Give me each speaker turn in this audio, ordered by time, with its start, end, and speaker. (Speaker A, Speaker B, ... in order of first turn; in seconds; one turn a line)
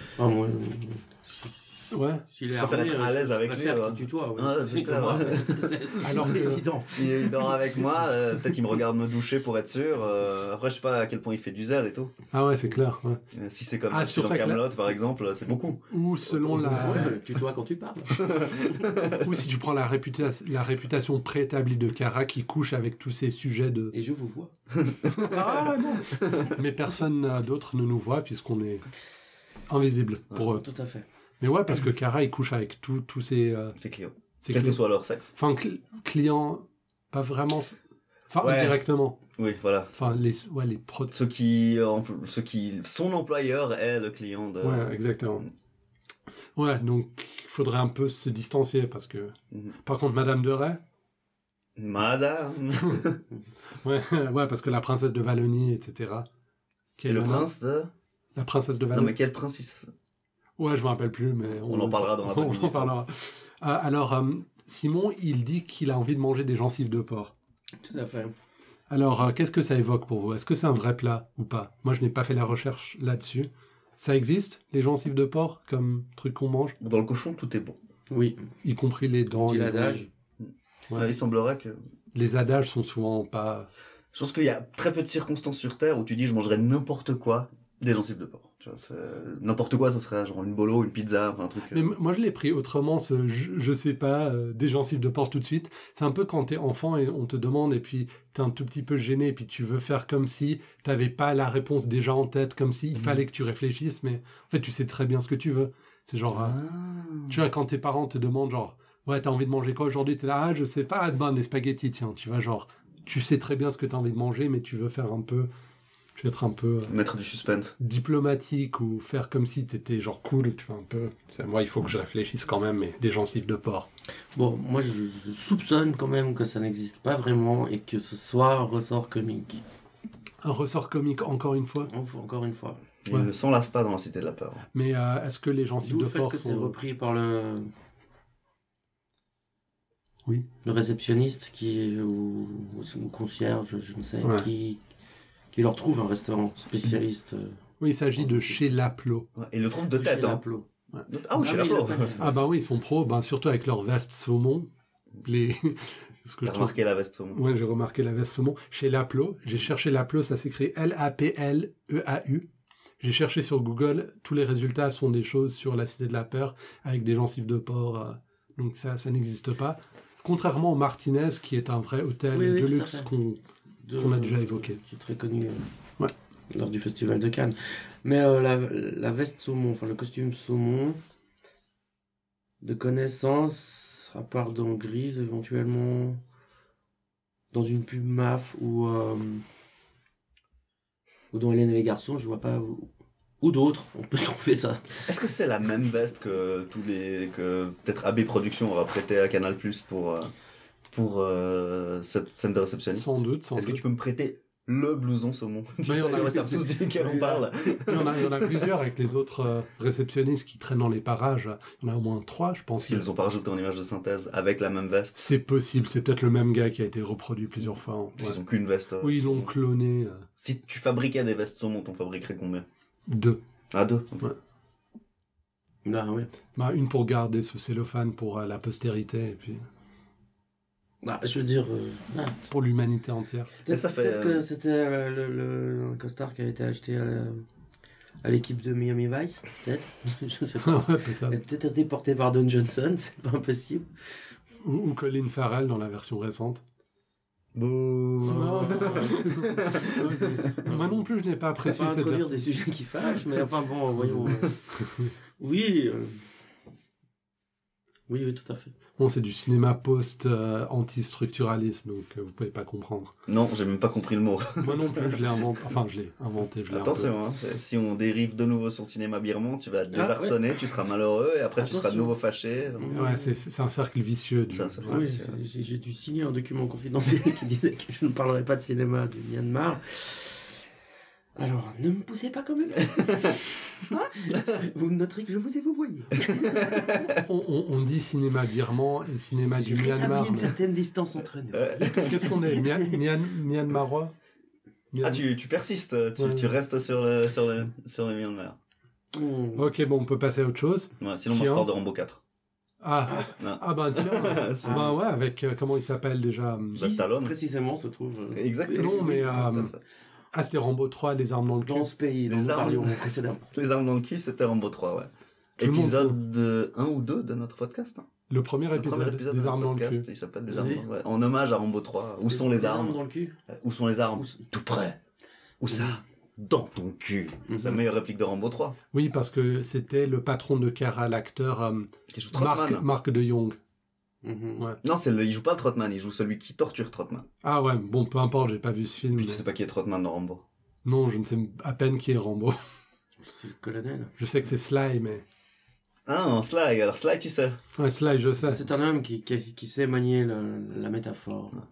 Speaker A: 0.2-1.5
Speaker B: 1.9-2.2
Speaker A: 2.3-7.6
Speaker C: 2.5-6.2
Speaker B: 6.0-6.6
Speaker C: 6.9-12.1
Speaker B: 12.3-13.2
Speaker C: 13.3-17.1
Speaker B: 13.9-14.6
Speaker B: 15.9-17.1
Speaker A: 16.7-18.2
Speaker C: 18.1-19.4
Speaker B: 19.2-23.9
Speaker A: 23.9-24.5
Speaker C: 24.7-26.6
Speaker B: 25.1-28.8
Speaker B: 29.7-30.6
Speaker A: 30.6-31.0
Speaker B: 31.4-33.8
Speaker C: 33.8-35.3
Speaker B: 34.4-34.8
Speaker B: 35.3-37.8
Speaker B: 38.3-39.2
Speaker C: 38.4-38.8
Speaker C: 39.4-40.1
Speaker B: 39.9-41.1
Speaker C: 41.1-44.9
Speaker B: 44.6-45.5
Speaker B: 46.5-50.8
Speaker C: 51.8-53.2
Speaker B: 53.8-56.3
Speaker B: 57.0-57.5
Speaker C: 57.1-57.9
Speaker B: 58.3-59.1
Speaker C: 58.9-59.8
Speaker B: 60.6-67.3
Speaker C: 61.6-62.9
Speaker A: 67.8-68.3
Speaker B: 68.9-76.8
Speaker C: 76.8-77.8
Speaker A: 78.1-78.4
Speaker B: 78.6-80.1
Speaker A: 79.3-80.1
Speaker C: 80.4-81.8
Speaker B: 82.1-83.7
Speaker C: 84.1-91.9
Speaker B: 91.7-106.6
Speaker C: 106.3-107.4
Speaker B: 107.3-115.5
Speaker B: 116.1-116.9
Speaker C: 116.9-117.8
Speaker B: 117.8-123.9
Speaker A: 124.3-129.6
Speaker B: 130.4-131.9
Speaker A: 131.8-132.8
Speaker C: 133.0-134.6
Speaker B: 134.7-136.8
Speaker A: 135.8-137.7
Speaker A: 140.6-144.8
Speaker B: 144.2-144.5
Speaker A: 145.5-147.6
Speaker B: 147.8-149.3
Speaker A: 148.2-148.6
Speaker C: 149.3-150.4
Speaker A: 150.0-150.7
Speaker C: 151.1-152.3
Speaker A: 151.3-152.3
Speaker B: 152.2-154.7
Speaker B: 155.2-156.7
Speaker C: 156.4-157.4
Speaker B: 157.3-162.5
Speaker B: 163.0-173.4
Speaker A: 172.3-173.1
Speaker A: 173.8-175.7
Speaker B: 174.0-174.8
Speaker A: 176.5-181.0
Speaker A: 182.6-186.2
Speaker A: 187.5-189.4
Speaker A: 191.3-192.9
Speaker A: 193.4-195.1
Speaker C: 195.1-200.3
Speaker C: 200.9-208.7
Speaker B: 202.9-203.8
Speaker B: 205.8-206.6
Speaker A: 206.0-207.5
Speaker B: 207.9-213.0
Speaker C: 212.8-215.2
Speaker B: 215.1-218.4
Speaker C: 218.2-219.5
Speaker B: 219.0-220.3
Speaker C: 220.4-222.6
Speaker B: 223.1-223.4
Speaker C: 223.7-224.3
Speaker A: 225.8-226.3
Speaker B: 226.6-229.7
Speaker A: 231.0-232.4
Speaker B: 232.5-233.5
Speaker A: 233.6-237.4
Speaker C: 233.7-234.4
Speaker A: 238.2-243.9
Speaker B: 240.6-241.4
Speaker B: 244.6-246.6
Speaker C: 247.5-250.5
Speaker A: 248.2-251.0
Speaker B: 248.2-252.4
Speaker A: 251.6-254.6
Speaker B: 254.8-255.1
Speaker A: 255.4-256.2
Speaker A: 258.1-258.7
Speaker B: 259.0-263.1
Speaker C: 263.3-265.2
Speaker B: 264.6-267.1
Speaker C: 266.7-272.9
Speaker A: 269.9-270.6
Speaker A: 271.6-272.1
Speaker A: 272.8-273.4
Speaker B: 272.9-275.0
Speaker C: 274.5-275.4
Speaker A: 274.9-280.5
Speaker A: 281.4-287.1
Speaker C: 282.8-284.6
Speaker C: 286.1-287.2
Speaker B: 287.1-290.6
Speaker A: 289.5-293.0
Speaker C: 291.5-292.5
Speaker B: 291.9-294.1
Speaker B: 294.9-295.2
Speaker C: 295.0-298.6
Speaker B: 296.2-296.5
Speaker A: 299.1-299.7
Speaker B: 299.5-301.7
Speaker C: 301.0-302.2
Speaker B: 302.8-306.9
Speaker C: 303.3-304.9
Speaker A: 304.6-304.9
Speaker C: 306.7-307.3
Speaker A: 306.9-309.7
Speaker C: 308.3-309.8
Speaker B: 308.7-309.7
Speaker B: 310.3-311.9
Speaker A: 311.6-313.5
Speaker C: 312.3-313.0
Speaker C: 313.5-318.1
Speaker B: 315.6-316.1
Speaker B: 318.3-320.0
Speaker C: 318.7-325.0
Speaker A: 320.5-320.8
Speaker A: 322.3-323.4
Speaker A: 324.2-324.4
Speaker C: 325.6-328.8
Speaker A: 325.7-326.0
Speaker A: 327.5-327.8
Speaker B: 328.9-333.6
Speaker C: 332.1-332.8
Speaker A: 334.2-334.7
Speaker C: 334.8-337.2
Speaker B: 337.4-339.4
Speaker C: 339.1-340.4
Speaker B: 340.8-342.6
Speaker A: 343.2-344.1
Speaker B: 344.2-345.2
Speaker C: 346.1-347.6
Speaker B: 347.7-348.6
Speaker A: 348.2-351.6